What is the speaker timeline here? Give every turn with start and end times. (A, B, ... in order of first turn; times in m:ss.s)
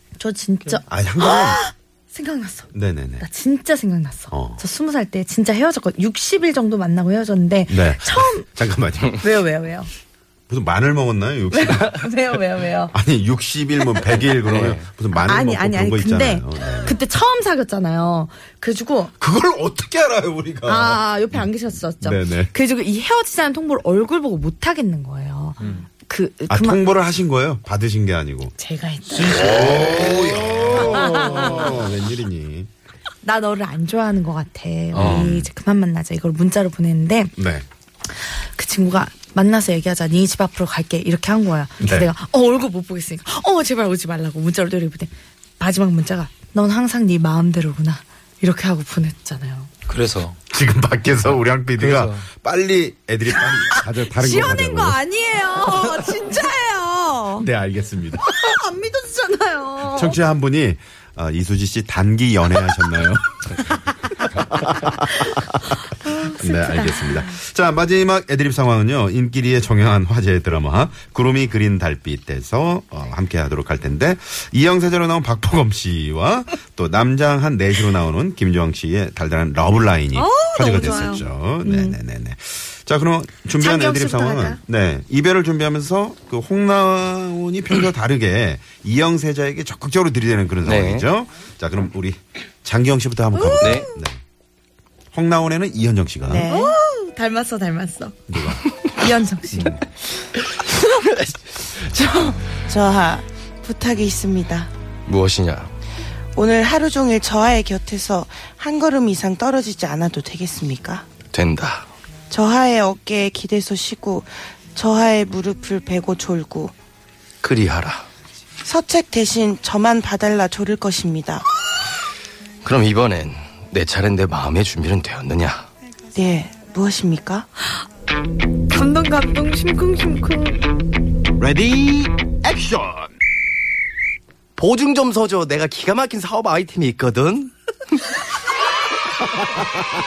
0:00.2-0:02.7 A
0:00.9-0:01.6 B
0:02.7-0:03.3 B
0:03.2-0:08.5 A
0:04.3-0:04.6 B
0:07.7-0:09.2 B
0:09.2-0:09.9 A
0:10.5-0:12.1 B
0:11.5-0:12.9 A
0:12.9-0:17.0 B
0:14.5-0:14.9 C
0:15.2-0:19.1 A
0:19.2-0:22.5 B
0:20.6-0:26.8 A
0:25.6-0:25.9 D
0:26.5-0:28.5 B
0:28.6-0:29.8 A
0:29.1-0:31.2 D
0:29.3-0:32.7 B
0:30.9-0:31.6 A
0:33.2-0:37.3 A
0:34.9-0:35.5 B
0:34.9-0:35.3 C
0:37.4-0:37.6 B
0:38.1-0:49.7 A
0:41.8-0:42.1 B
0:49.9-0:50.4 D
0:50.5-0:55.0 B
0:51.8-0:52.2 D
0:54.0-0:57.5 A
0:57.4-0:58.2 B
0:58.2-1:00.2 A
0:59.9-1:03.7 B
1:04.5-1:04.9 B
1:06.0-1:07.3 A
1:06.1-1:34.2 B
1:20.1-1:22.0 A
1:23.6-1:24.6 A
1:30.6-1:31.1 C
1:33.4-1:33.9 A
1:33.6-1:33.9 C
1:35.1-1:36.5 B
1:36.3-1:36.8 E
1:36.4-1:38.2 A
1:38.3-1:38.6 B
1:38.9-1:39.8 A
1:42.1-1:44.7 E
1:45.1-1:45.7 C
1:46.4-1:51.1 E
1:51.3-1:51.9 C
1:52.3-1:56.7 E
1:57.4-1:58.1 C
1:58.6-2:01.5 E
2:02.6-2:05.7 C
2:06.1-2:07.5 E
2:08.7-2:10.6 A
2:11.4-2:13.1 C
2:14.6-2:17.5 C